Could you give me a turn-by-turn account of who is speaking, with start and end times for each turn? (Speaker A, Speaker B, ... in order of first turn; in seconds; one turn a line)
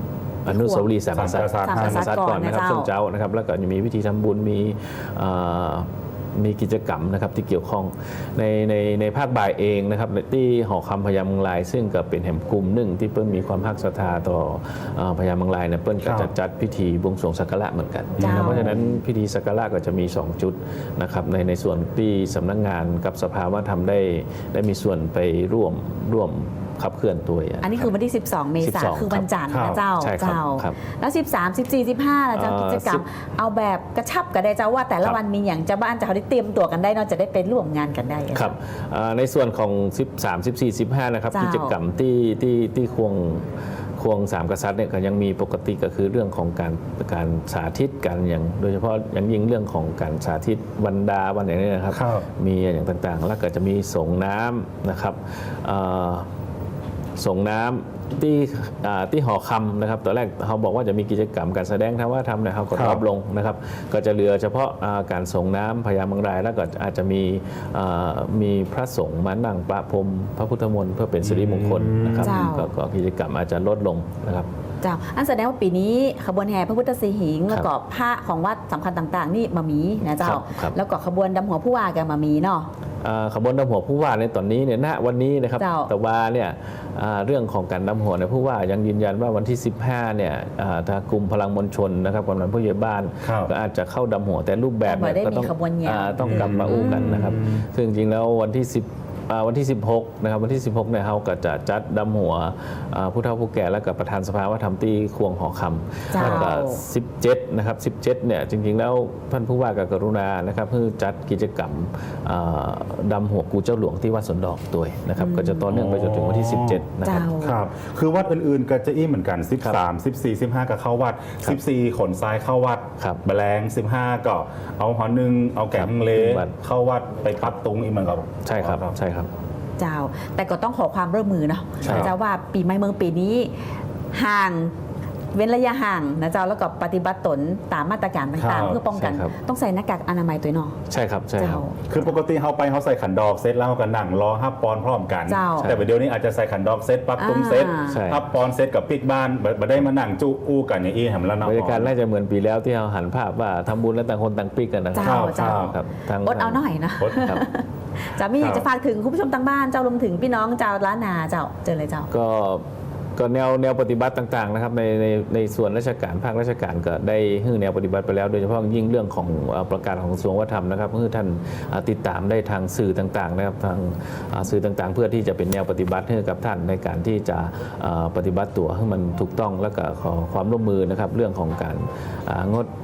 Speaker A: 0.5-27.9
Speaker B: 0.5-0.9
Speaker C: 1.1-2.1
Speaker B: 1.6-2.9
Speaker C: 16.0-16.3
Speaker C: 18.2-18.8
Speaker B: 18.2-18.7
Speaker B: 27.6-38.5
Speaker A: 28.6-29.3
Speaker C: 29.5-29.8
Speaker A: 30.0-30.8
Speaker A: 32.3-33.0
Speaker A: 38.3-43.5
Speaker B: 41.3-41.8
Speaker A: 44.0-56.3
Speaker C: 51.9-52.2
Speaker A: 57.2-74.5
Speaker C: 62.7-63.0
Speaker C: 71.2-72.4
Speaker B: 72.2-72.7
Speaker B: 74.8-82.7
Speaker A: 80.2-80.8
Speaker A: 83.0-117.3
Speaker B: 85.6-85.9
Speaker C: 93.2-93.5
Speaker B: 94.8-97.3
Speaker C: 96.2-97.6
Speaker B: 106.1-106.8
Speaker C: 106.2-106.5
Speaker B: 115.2-115.7
Speaker C: 115.7-116.8
Speaker B: 117.0-117.6
Speaker C: 117.4-128.9
Speaker A: 125.7-126.5
Speaker A: 128.4-129.3
Speaker B: 129.8-133.5
Speaker A: 131.8-132.1
Speaker C: 131.8-132.1
Speaker B: 134.1-134.7
Speaker B: 135.3-140.8
Speaker C: 138.4-138.8
Speaker A: 138.9-139.3
Speaker A: 140.9-141.6
Speaker B: 141.4-142.0
Speaker C: 141.9-151.9
Speaker B: 145.3-145.7
Speaker A: 145.6-145.9
Speaker B: 147.2-148.0
Speaker A: 147.8-148.2
Speaker A: 151.4-157.4
Speaker B: 154.9-162.1
Speaker C: 155.0-155.8
Speaker C: 158.4-158.7
Speaker A: 162.1-162.6
Speaker A: 163.2-182.7